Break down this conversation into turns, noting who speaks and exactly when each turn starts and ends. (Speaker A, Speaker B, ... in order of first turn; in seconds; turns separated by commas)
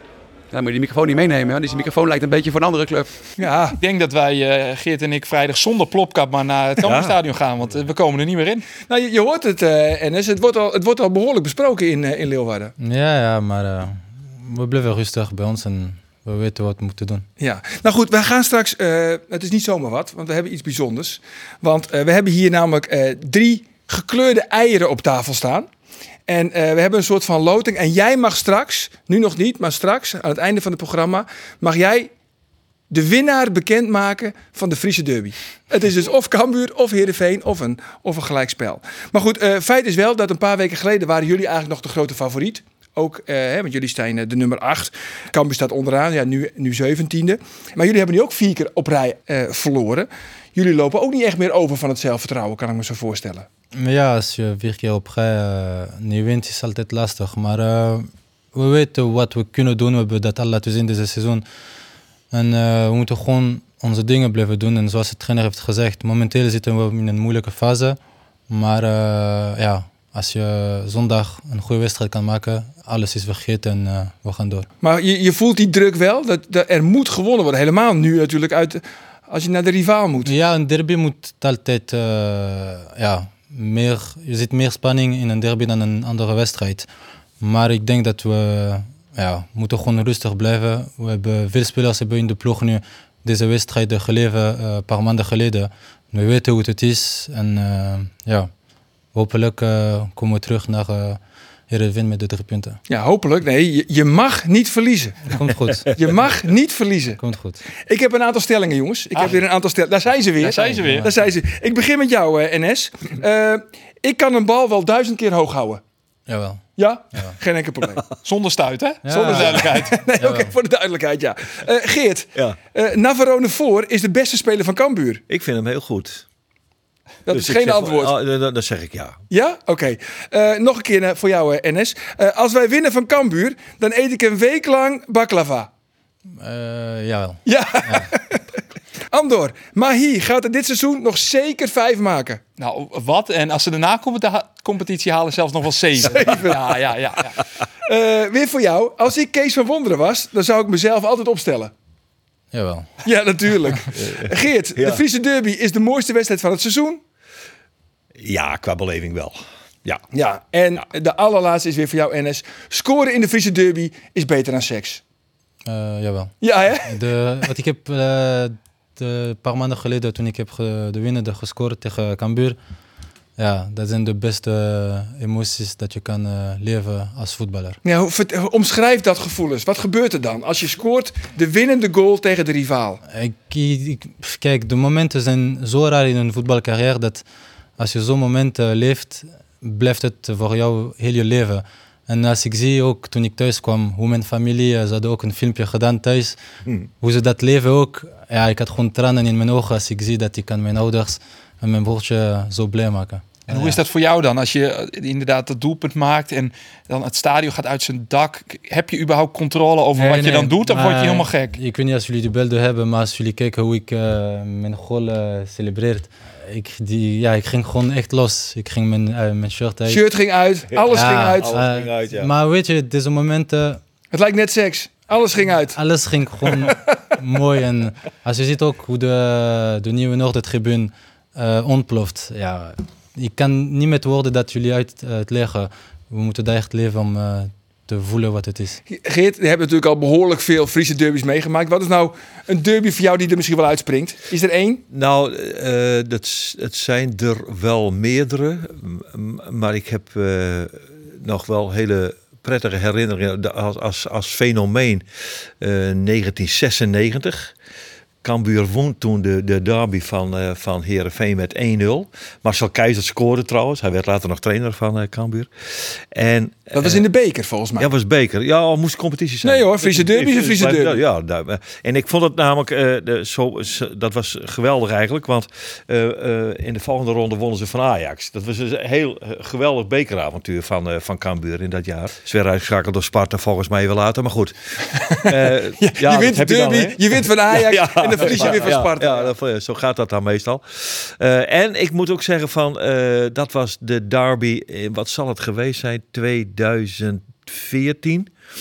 Speaker A: 0.5-3.1, Speaker B: 3.4-3.8, Speaker C: 3.8-8.7, Speaker D: 6.8-7.2, Speaker B: 8.9-12.7, Speaker E: 12.8-17.2, Speaker B: 17.4-25.7, Speaker B: 26.3-32.1, Speaker B: 32.9-53.5, Speaker E: 53.8-61.4, Speaker E: 62.3-68.0, Speaker E: 68.5-74.7, Speaker B: 74.8-80.3, Speaker E: 80.2-86.9, Speaker E: 87.4-98.5, Speaker E: 99.1-101.2, Speaker E: 101.7-102.8, Speaker B: 102.9-105.3, Speaker E: 105.3-105.9, Speaker B: 106.0-107.2, Speaker E: 107.2-107.6, Speaker B: 107.9-115.8, Speaker C: 110.4-111.1, Speaker E: 110.7-111.1, Speaker E: 116.3-116.6, Speaker B: 116.8-118.0, Speaker C: 118.2-120.0, Speaker E: 119.0-120.5, Speaker B: 119.1-125.2, Speaker D: 125.3-126.2, Speaker B: 127.3-128.2, Speaker D: 127.3-129.2, Speaker B: 129.3-135.7, Speaker E: 136.4-138.1, Speaker B: 137.5-138.4, Speaker B: 139.1-142.4, Speaker C: 142.6-147.3, Speaker B: 146.0-146.9, Speaker B: 147.8-151.7, Speaker E: 152.5-152.9, Speaker B: 153.0-157.0, Speaker D: 154.0-155.0, Speaker D: 158.2-160.0, Speaker B: 160.1-165.0, Speaker E: 165.7-172.6, Speaker B: 166.4-166.9, Speaker E: 173.4-177.8, Speaker B: 177.8-183.0, Speaker E: 183.1-187.2, Speaker E: 187.8-196.4, Speaker E: 197.0-203.8, Speaker C: 203.5-211.6, Speaker E: 210.0-220.0, Speaker B: 219.9-221.6, Speaker D: 220.8-222.3, Speaker E: 220.9-223.8, Speaker B: 224.1-225.8, Speaker E: 225.7-238.8, Speaker B: 226.5-226.8, Speaker B: 238.9-244.8, Speaker D: 244.9-255.0, Speaker D: 255.6-257.5, Speaker D: 258.2-265.5, Speaker D: 266.1-267.0, Speaker B: 266.8-267.9, Speaker D: 267.8-284.5, Speaker B: 269.4-271.0, Speaker B: 285.0-289.3, Speaker D: 285.3-298.3